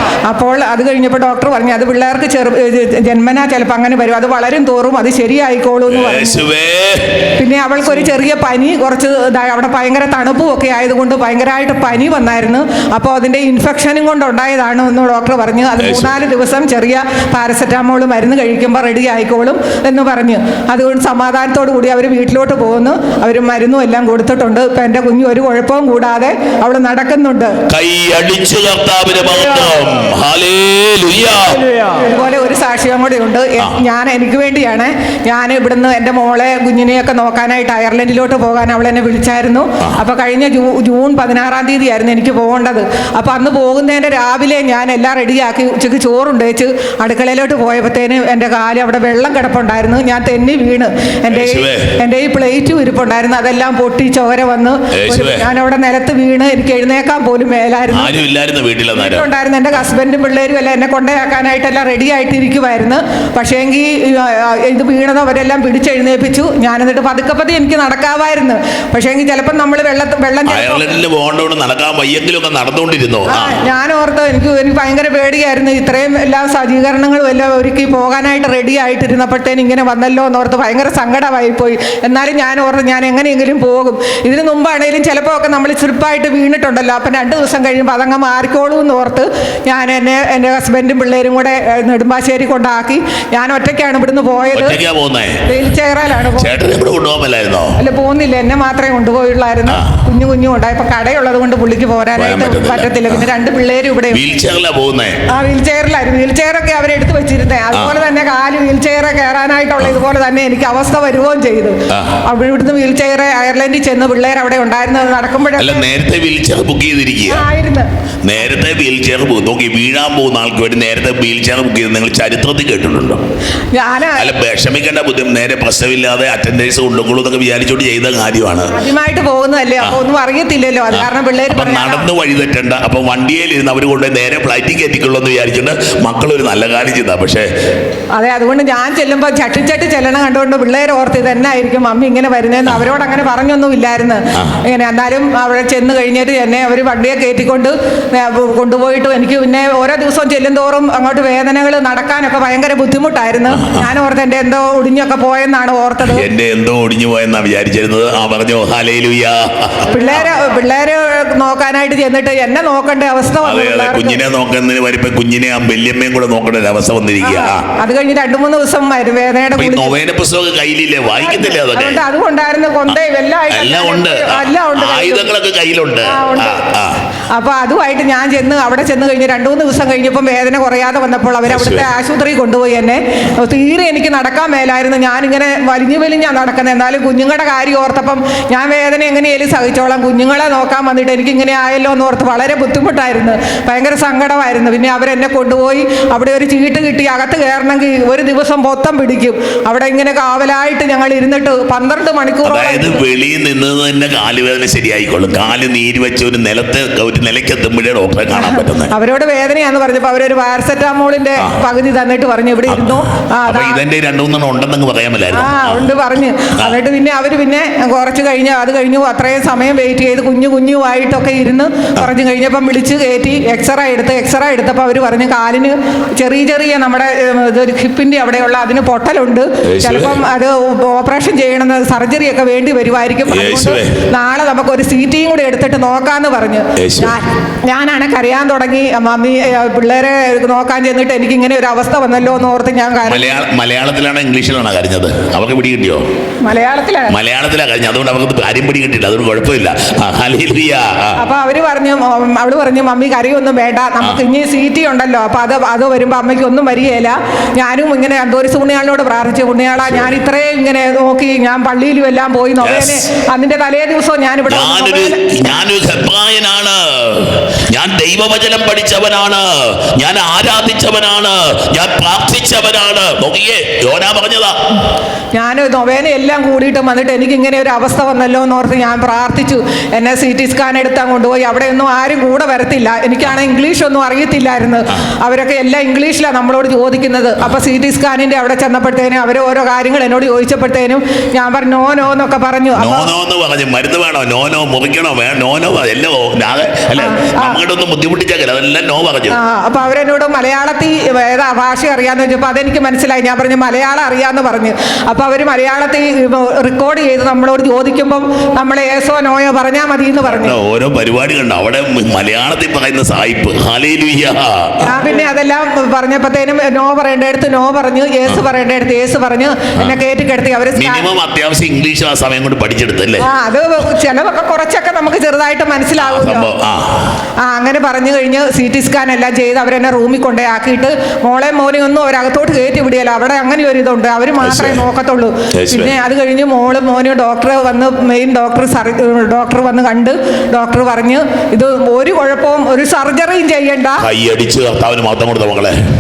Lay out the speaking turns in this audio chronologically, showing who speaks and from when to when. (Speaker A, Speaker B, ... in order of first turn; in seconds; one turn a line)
Speaker A: 0.3-6.5
Speaker B: 5.9-7.3
Speaker A: 7.4-27.6
Speaker B: 15.8-16.2
Speaker B: 27.7-31.8
Speaker A: 31.9-58.1
Speaker B: 51.3-51.9
Speaker B: 54.9-55.5
Speaker B: 57.9-59.3
Speaker A: 58.9-70.9
Speaker B: 70.5-73.6
Speaker A: 73.3-94.8
Speaker B: 94.5-95.4
Speaker A: 95.5-96.6
Speaker B: 96.4-97.8
Speaker A: 97.8-104.3
Speaker B: 99.7-99.9
Speaker B: 102.2-103.2
Speaker B: 104.1-105.2
Speaker A: 105.3-115.9
Speaker B: 107.7-108.0
Speaker B: 111.9-112.2
Speaker B: 115.6-117.5
Speaker A: 117.3-117.9
Speaker B: 118.2-123.2
Speaker A: 123.7-124.3
Speaker B: 124.2-128.7
Speaker A: 128.7-132.1
Speaker B: 130.9-137.5
Speaker A: 138.2-156.3
Speaker B: 153.5-153.9
Speaker B: 156.0-160.3
Speaker A: 159.9-164.2
Speaker B: 163.4-167.7
Speaker A: 167.2-169.9
Speaker B: 169.6-172.1
Speaker A: 171.2-175.3
Speaker B: 173.5-177.0
Speaker A: 176.0-176.6
Speaker A: 177.3-203.0
Speaker B: 181.5-181.9
Speaker B: 202.4-208.9
Speaker A: 208.3-213.8
Speaker B: 212.7-216.0
Speaker A: 215.3-243.4
Speaker B: 229.7-230.2
Speaker B: 233.3-234.0
Speaker B: 236.8-237.2
Speaker B: 243.0-246.0
Speaker A: 246.4-247.2
Speaker B: 247.1-251.2
Speaker A: 251.2-265.5
Speaker B: 259.8-260.1
Speaker B: 262.6-263.0
Speaker B: 264.5-274.6
Speaker A: 275.3-293.1
Speaker B: 292.8-299.4
Speaker A: 297.0-297.6
Speaker A: 299.3-310.6
Speaker B: 310.3-314.9
Speaker A: 314.8-321.1
Speaker B: 320.8-323.3
Speaker A: 323.2-326.5
Speaker B: 326.0-327.1
Speaker A: 327.4-344.1
Speaker B: 334.4-334.9
Speaker B: 335.5-335.9
Speaker B: 344.0-345.8